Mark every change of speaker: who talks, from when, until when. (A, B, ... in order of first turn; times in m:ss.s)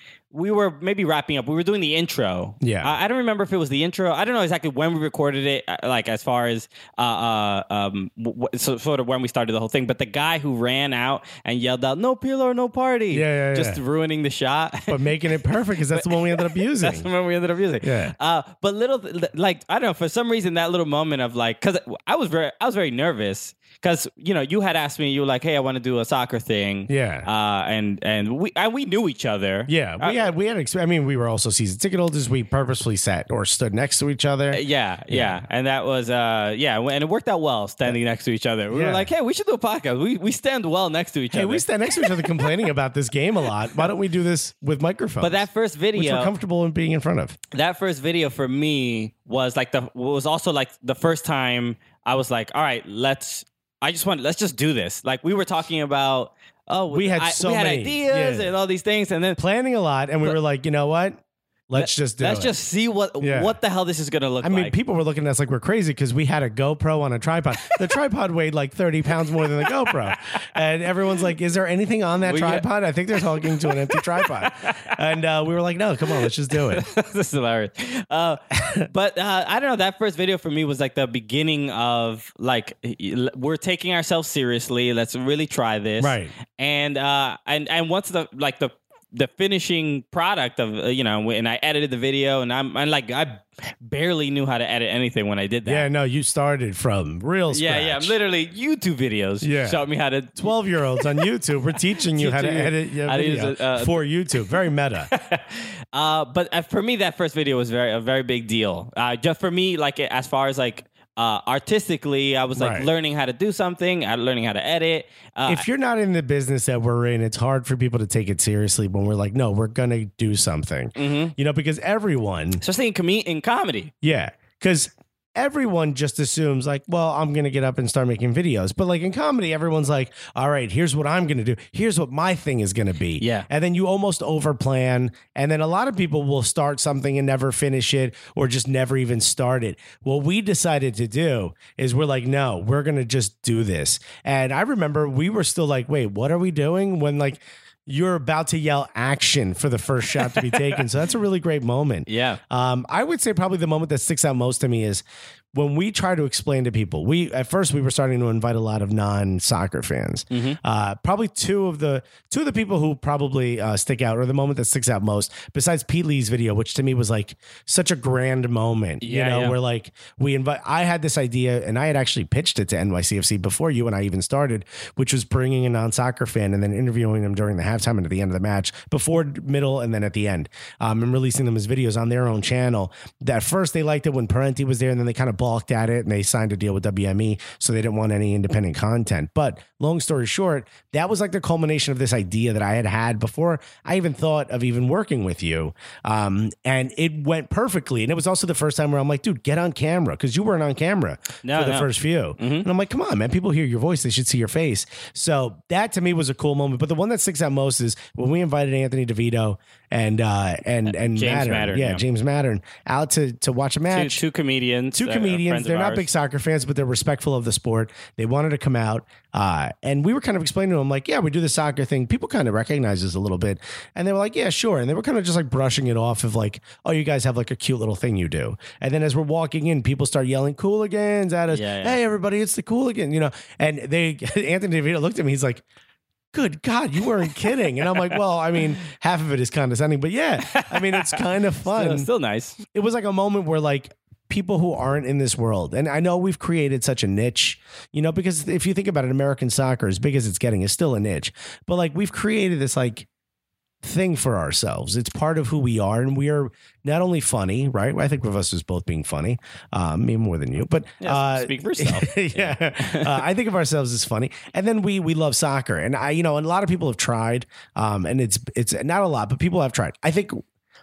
0:00.3-0:15.1 A
0:02.6-0:03.0 B
0:13.1-0:13.8 B
0:14.9-0:17.1 B
0:15.9-0:30.3 A
0:17.8-0:18.1 B
0:26.9-0:27.3 B
0:29.7-0:35.4 B
0:34.5-0:42.6 A
0:38.7-0:39.1 B
0:41.3-0:47.4 B
0:45.2-0:46.3 A
0:47.5-0:59.4 A
0:56.9-0:58.5 B
0:59.4-1:02.5 B
1:01.7-1:04.8 A
1:03.2-1:03.6 B
1:04.4-1:16.8 B
1:09.6-1:10.2 A
1:12.2-1:15.0 A
1:16.1-1:35.9 A
1:18.6-1:18.8 B
1:26.0-1:26.3 B
1:35.6-1:38.2 B
1:37.5-1:41.2 A
1:39.4-1:39.8 B
1:40.4-1:45.1 B
1:42.1-1:44.0 A
1:45.1-1:55.7 A
1:52.6-1:52.9 B
1:55.5-2:02.6 B
2:01.0-2:01.3 A
2:02.6-2:03.9 A
2:04.0-3:34.2 B
2:13.2-2:13.5 A
2:30.2-2:30.8 A
2:32.1-2:32.4 A
2:40.3-2:40.6 A
2:49.0-2:49.6 A
3:21.4-3:22.7 A
3:31.0-3:32.0 A
3:33.9-3:36.1 A
3:34.9-3:55.6 B
3:51.5-3:52.0 A
3:56.3-4:02.1 B
4:00.4-4:02.6 A
4:02.6-4:13.1 B
4:13.8-4:30.4 B
4:21.0-4:23.2 A